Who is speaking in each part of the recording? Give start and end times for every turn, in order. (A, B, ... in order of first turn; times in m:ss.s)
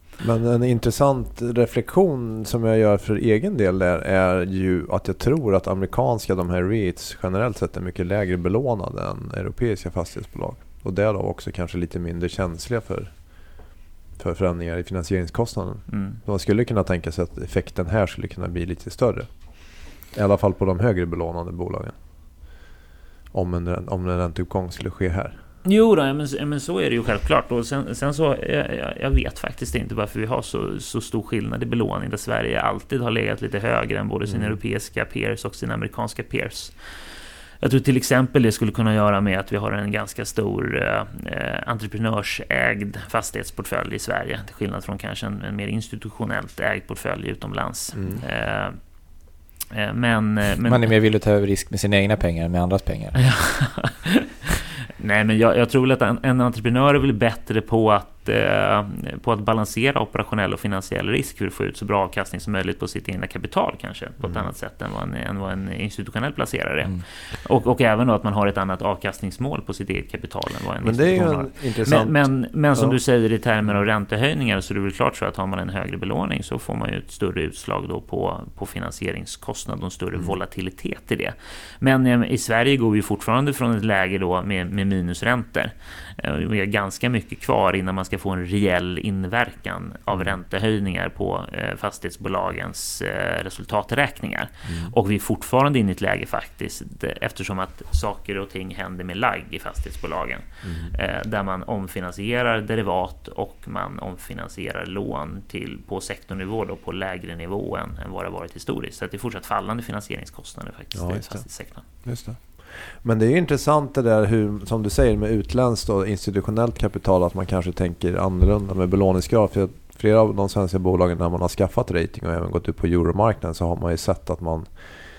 0:00.2-0:13.6 A
0:14.2-0:19.3 A
0:15.9-0:16.2 B
0:20.1-0:22.0 A
0:23.3-0:25.4 A
0:25.6-0:36.7 B
0:34.3-0:34.6 A
0:37.6-0:48.8 B
0:48.0-0:48.2 A
0:49.7-0:50.9 B
0:50.6-0:53.2 C
0:53.2-0:54.3 B
0:55.0-1:51.8 B
1:04.2-1:04.5 A
1:10.8-1:13.0 A
1:30.1-1:30.4 A
1:34.7-1:34.9 A
1:40.6-1:40.9 A
1:51.0-1:51.4 A
1:52.0-2:05.0 A